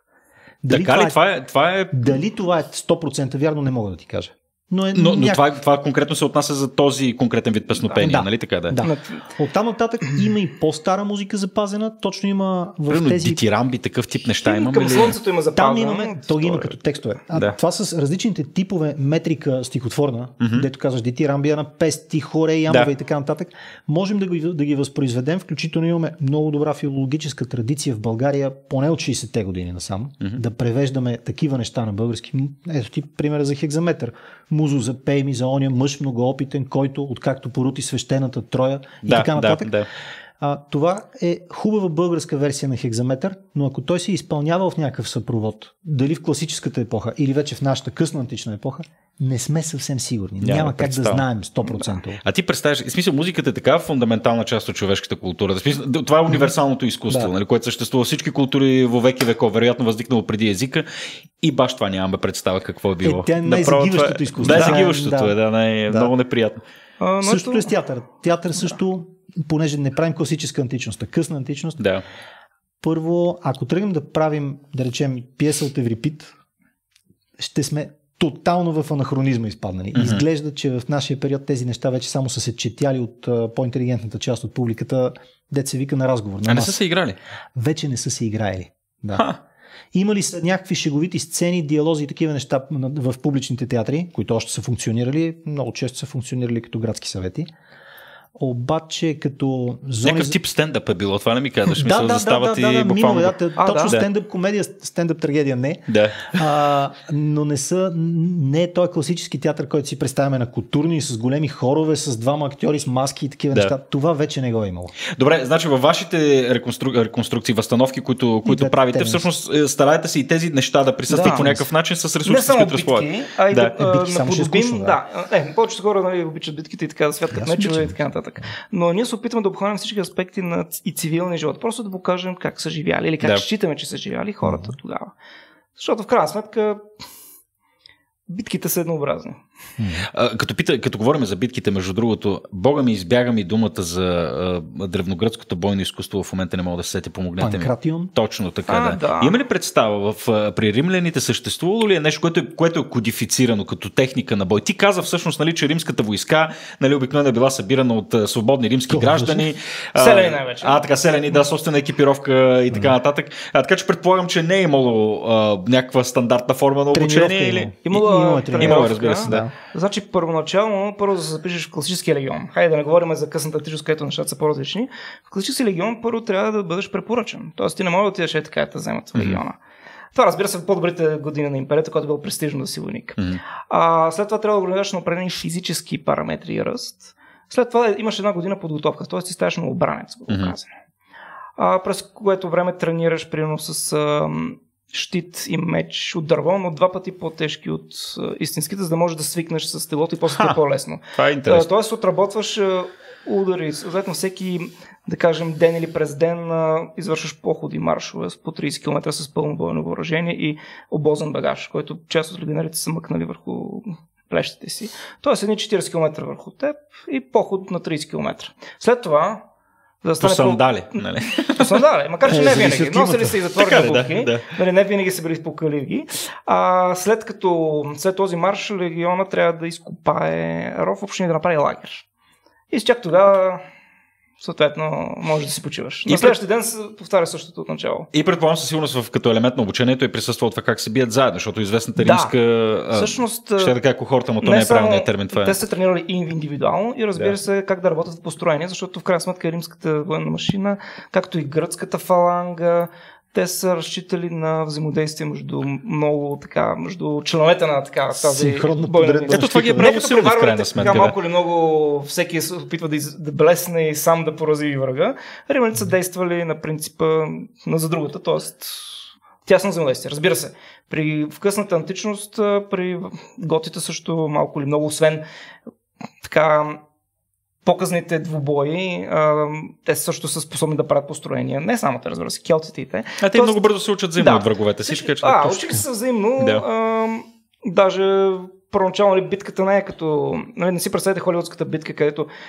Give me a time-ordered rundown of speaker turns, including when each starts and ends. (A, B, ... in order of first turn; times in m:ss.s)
0:00.6-0:01.2 A
0:00.7-0:02.2 B
0:01.9-0:05.5 A
0:05.0-0:08.8 B
0:08.0-0:13.4 A
0:08.8-0:09.2 C
0:12.9-0:15.2 B
0:14.4-0:17.0 C
0:15.6-0:39.8 A
0:20.4-0:20.7 B
0:39.0-0:39.9 B
0:40.4-0:52.2 A
0:50.4-0:51.2 B
0:52.2-1:00.9 B
1:01.4-1:06.6 B
1:03.0-1:05.4 A
1:04.5-1:04.8 C
1:07.0-1:07.7 C
1:07.2-1:11.8 A
1:11.8-1:12.0 B
1:12.8-1:16.3 A
1:17.4-1:26.8 A
1:20.0-1:20.2 B
1:26.4-1:27.2 B
1:27.6-1:29.3 A
1:29.9-1:37.5 A
1:38.4-1:40.4 A
1:40.0-1:44.1 B
1:41.8-1:55.0 A
1:43.6-1:44.0 C
1:45.9-1:46.2 B
1:55.1-2:03.8 B
1:58.5-1:59.3 A
2:01.1-2:01.5 C
2:01.3-2:01.6 A
2:02.2-2:15.1 C
2:03.8-2:05.0 A
2:07.3-2:08.0 A
2:14.4-2:14.7 A
2:15.8-2:16.8 C
2:18.3-2:19.4 C
2:19.8-2:20.1 A
2:20.1-2:47.8 B
2:27.4-2:28.1 A
2:28.7-2:29.4 C
2:38.9-2:39.5 A
2:40.0-2:40.8 C
2:46.9-2:49.5 A
2:47.8-2:59.6 C
2:48.6-2:49.4 B
2:59.2-2:59.4 B
3:00.1-3:10.7 C
3:10.3-3:10.5 B
3:11.6-3:39.4 C
3:21.2-3:21.7 B
3:40.0-3:41.0 C
3:40.2-3:41.8 B
3:41.6-3:52.0 C
3:42.3-3:43.4 A
3:43.6-3:44.5 B
3:52.7-3:53.6 C
3:54.4-3:58.1 C
3:56.1-3:56.4 B
3:58.1-4:05.6 B
4:02.0-4:02.3 C
4:02.9-4:03.8 C
4:04.4-4:35.2 C
4:18.2-4:20.0 A
4:19.3-4:21.1 B
4:36.2-4:36.8 C
4:37.6-4:52.3 C
4:43.2-4:45.8 B